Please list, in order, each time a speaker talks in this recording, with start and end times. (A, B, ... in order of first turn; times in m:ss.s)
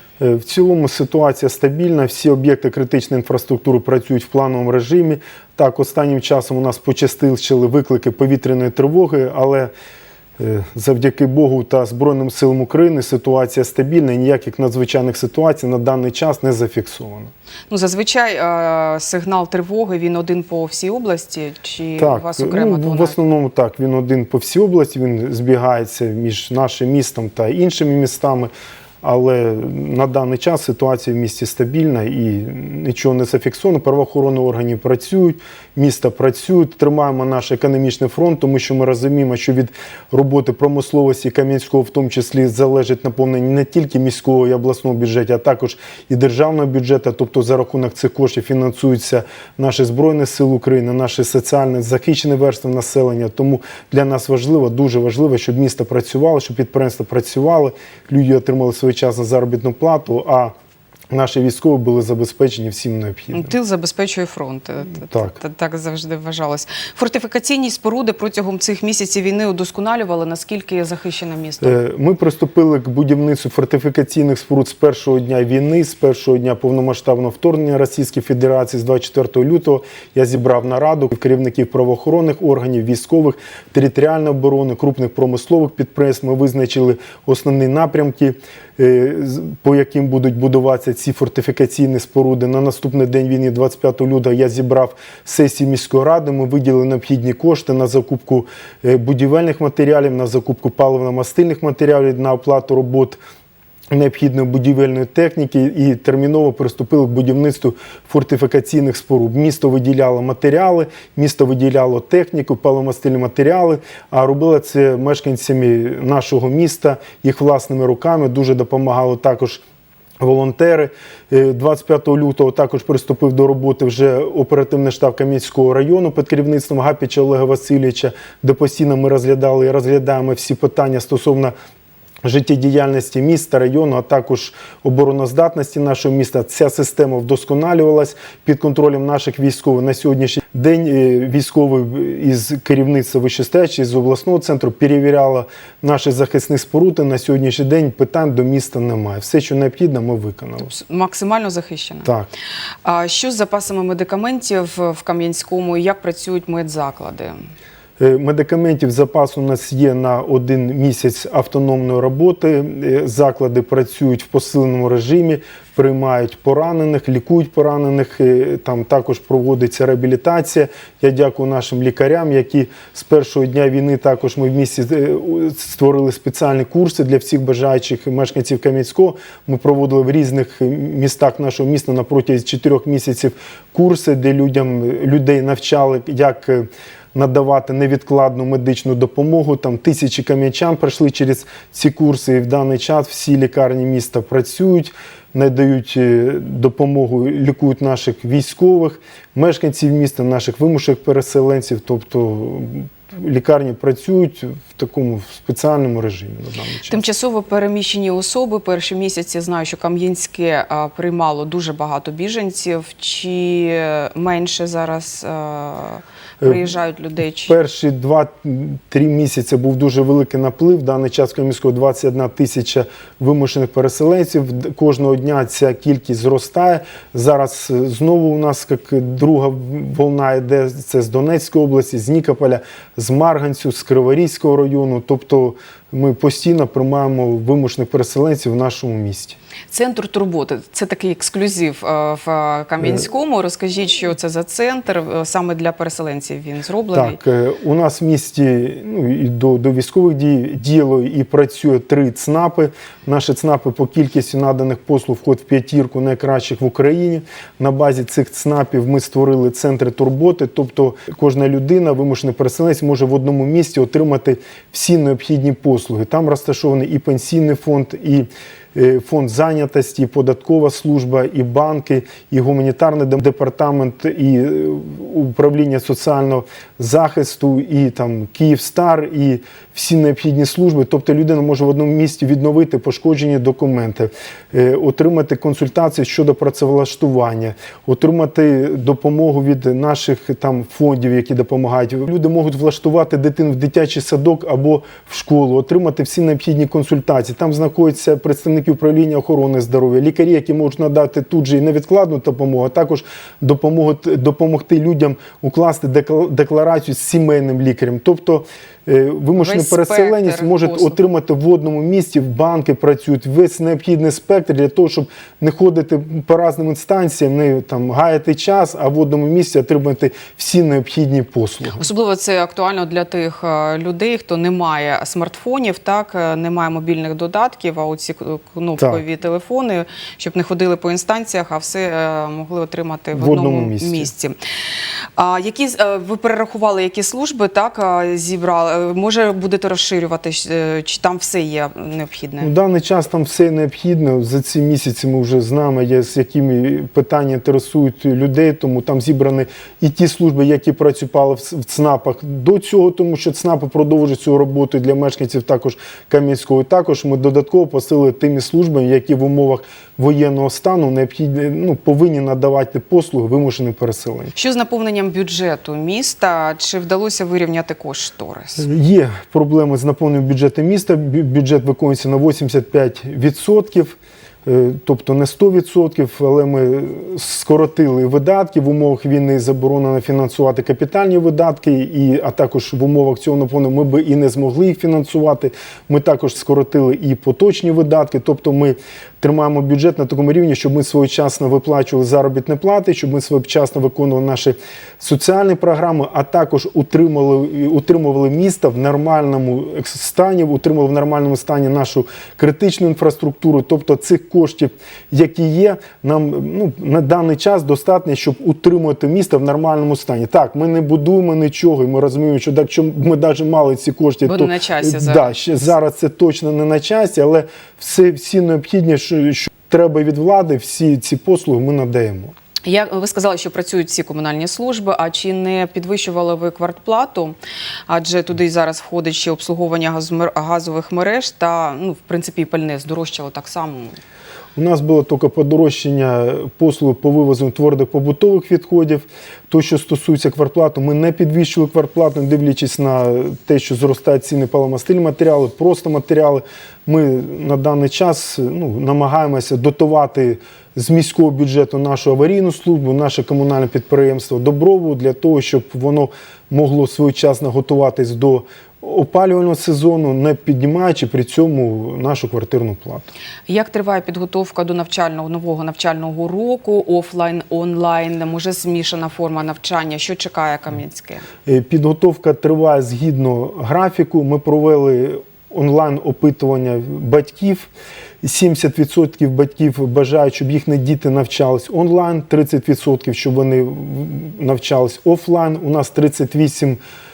0:00.2-0:09.7 A
0:10.4-0:17.3 A
0:17.7-0:23.2 B
0:22.0-0:28.5 A
0:29.0-1:00.5 A
1:01.1-1:03.6 A
1:03.3-1:11.8 B
1:05.0-1:05.4 A
1:11.6-1:43.2 A
1:43.9-1:59.6 A
2:00.2-2:11.5 A
2:12.2-2:30.7 A
2:30.6-2:32.1 B
2:32.8-2:37.4 B
2:38.0-3:27.0 A
3:26.9-3:37.6 B
3:36.4-3:36.7 A
3:37.5-3:59.4 A
3:59.7-4:07.2 B
4:06.9-5:21.8 A
5:09.4-5:11.0 B
5:21.8-5:34.4 B
5:28.8-5:29.0 A
5:33.1-5:34.1 A
5:35.2-5:42.5 B
5:42.4-6:04.3 A
6:04.4-6:08.7 B
6:08.6-7:02.4 A
6:54.2-6:55.4 B
7:02.6-7:07.4 B
7:07.9-7:14.0 B
7:14.6-7:43.1 A
7:43.5-7:51.2 B
7:51.5-7:57.7 A
7:58.2-8:06.8 A